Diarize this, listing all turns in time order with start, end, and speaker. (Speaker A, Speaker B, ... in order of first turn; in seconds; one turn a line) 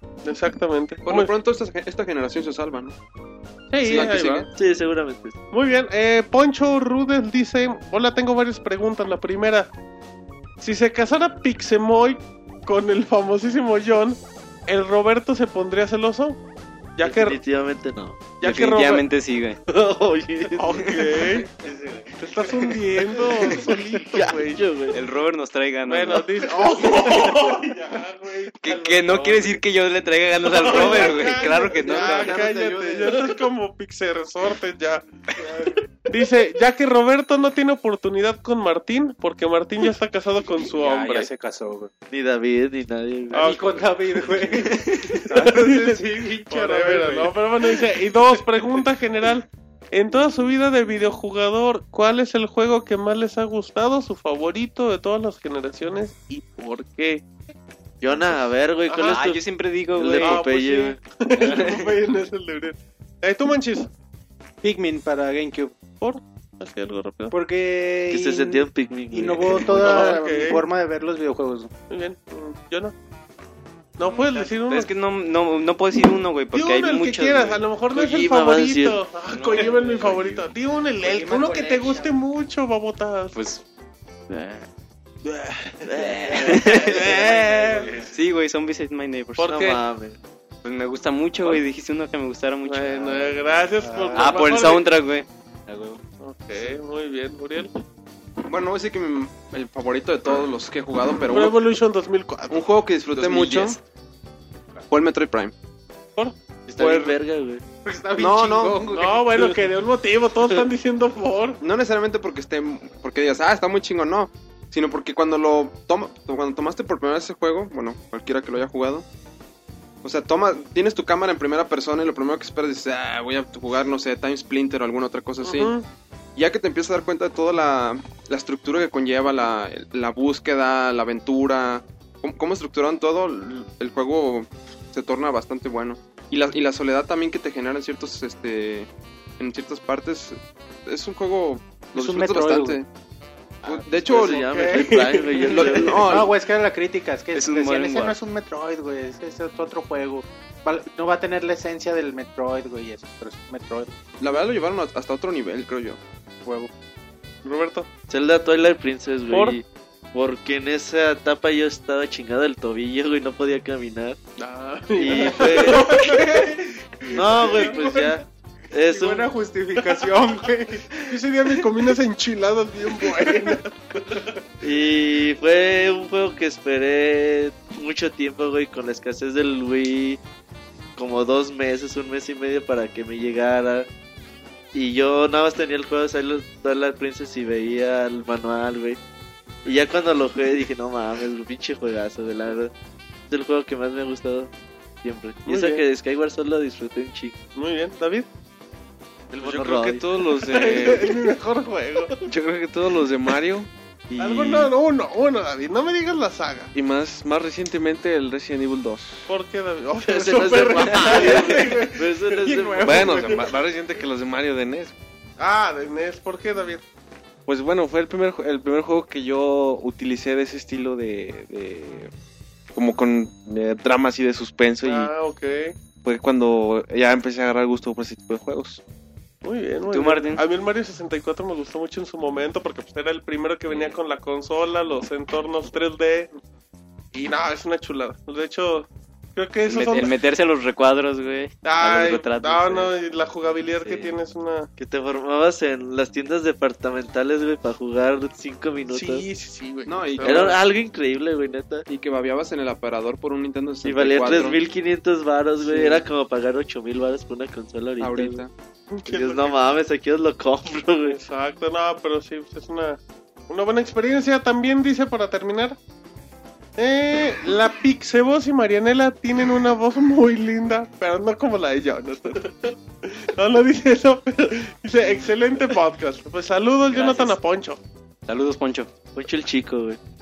Speaker A: 0.2-1.3
Speaker B: 1.1-3.0
Speaker A: 3.7-4.5
Speaker B: 3.8-4.5
Speaker C: 3.9-5.4
Speaker A: 5.5-9.7
Speaker A: 10.6-16.4
Speaker A: 17.0-17.4
Speaker C: 17.0-18.4
Speaker A: 18.4-19.1
Speaker D: 18.4-19.6
Speaker C: 19.7-20.9
Speaker A: 20.6-21.5
Speaker D: 20.7-21.4
Speaker E: 21.6-22.1
Speaker A: 22.2-24.6
Speaker C: 23.5-25.0
Speaker D: 24.9-27.4
Speaker A: 25.9-29.5
Speaker D: 28.6-32.5
Speaker A: 30.4-35.0
Speaker E: 30.7-31.1
Speaker E: 31.9-33.3
Speaker A: 35.6-41.3
Speaker E: 40.7-41.9
Speaker C: 42.1-43.6
Speaker E: 43.3-47.4
Speaker A: 43.3-43.8
Speaker D: 44.6-45.2
Speaker A: 45.4-57.2
Speaker C: 58.0-59.4
Speaker A: 58.1-59.2
Speaker D: 59.1-60.5
Speaker C: 60.0-61.0
Speaker A: 60.2-63.9
Speaker D: 61.4-61.9
Speaker E: 64.6-65.8
Speaker A: 66.0-67.3
Speaker E: 67.3-71.7
Speaker C: 68.1-70.2
Speaker A: 69.7-70.7
Speaker A: 71.9-72.9
Speaker A: 74.0-74.9
Speaker D: 74.1-77.7
Speaker A: 76.5-83.4
Speaker C: 77.9-79.0
Speaker D: 79.3-80.5
Speaker E: 81.0-82.2
Speaker D: 83.3-83.6
Speaker D: 84.3-84.7
Speaker A: 85.3-88.0
Speaker C: 85.8-87.3
Speaker D: 86.0-87.2
Speaker E: 87.0-88.1
Speaker D: 87.8-89.6
Speaker A: 89.4-89.8
Speaker C: 89.5-90.2
Speaker D: 90.6-93.4
Speaker A: 92.7-94.9
Speaker E: 93.8-94.2
Speaker D: 94.1-96.0
Speaker A: 96.2-97.7
Speaker B: 98.5-101.6
Speaker A: 101.1-102.7
Speaker B: 102.5-103.8
Speaker D: 103.1-103.8
Speaker B: 104.9-105.5
Speaker C: 106.7-107.6
Speaker B: 106.8-107.2
Speaker E: 107.8-108.9
Speaker B: 108.2-109.6
Speaker A: 108.9-111.6
Speaker B: 111.6-119.0
Speaker B: 120.0-125.8
Speaker A: 125.4-125.9
Speaker B: 126.4-142.9
Speaker E: 141.9-142.8
Speaker B: 143.6-144.7
Speaker C: 143.6-146.2
Speaker A: 144.3-146.0
Speaker B: 145.4-146.3
Speaker E: 146.1-153.9
Speaker D: 147.3-148.2
Speaker B: 154.2-156.0
Speaker E: 156.4-156.7
Speaker A: 157.4-157.9
Speaker C: 158.1-164.2
Speaker A: 159.3-159.6
Speaker A: 164.4-168.1
Speaker C: 165.0-166.0
Speaker E: 165.8-166.5
Speaker C: 167.1-169.3
Speaker E: 167.4-168.1
Speaker E: 168.9-171.7
Speaker A: 169.8-170.1
Speaker A: 171.1-174.3
Speaker E: 173.1-173.6
Speaker C: 174.6-180.2
Speaker C: 181.0-183.9
Speaker C: 184.7-189.0
Speaker C: 189.7-192.7
Speaker C: 193.3-194.5
Speaker C: 195.0-197.4
Speaker A: 195.5-195.8
Speaker A: 197.6-198.3
Speaker F: 199.3-201.2
Speaker C: 199.4-200.1
Speaker A: 200.3-202.2
Speaker F: 202.2-204.4
Speaker C: 204.2-204.7
Speaker A: 204.2-206.7
Speaker F: 206.7-209.3
Speaker A: 209.3-212.1
Speaker C: 210.1-213.3
Speaker E: 212.4-213.6
Speaker F: 212.8-214.9
Speaker A: 215.4-216.8
Speaker F: 217.5-222.1
Speaker F: 222.7-225.1
Speaker A: 224.8-225.8
Speaker F: 226.0-228.8
Speaker A: 229.4-236.3
Speaker D: 229.9-230.4
Speaker D: 233.7-234.0
Speaker A: 237.1-240.1
Speaker D: 239.7-242.9
Speaker A: 241.6-244.7
Speaker D: 243.8-244.2
Speaker C: 244.8-249.3
Speaker A: 248.9-250.6
Speaker B: 249.9-250.6
Speaker C: 250.2-251.9
Speaker B: 251.9-254.6
Speaker C: 253.8-258.4
Speaker B: 258.0-258.5
Speaker A: 258.9-259.6
Speaker C: 259.1-261.2
Speaker A: 261.1-265.8
Speaker A: 266.8-277.8
Speaker D: 276.9-277.4
Speaker D: 278.3-278.9
Speaker C: 279.1-280.0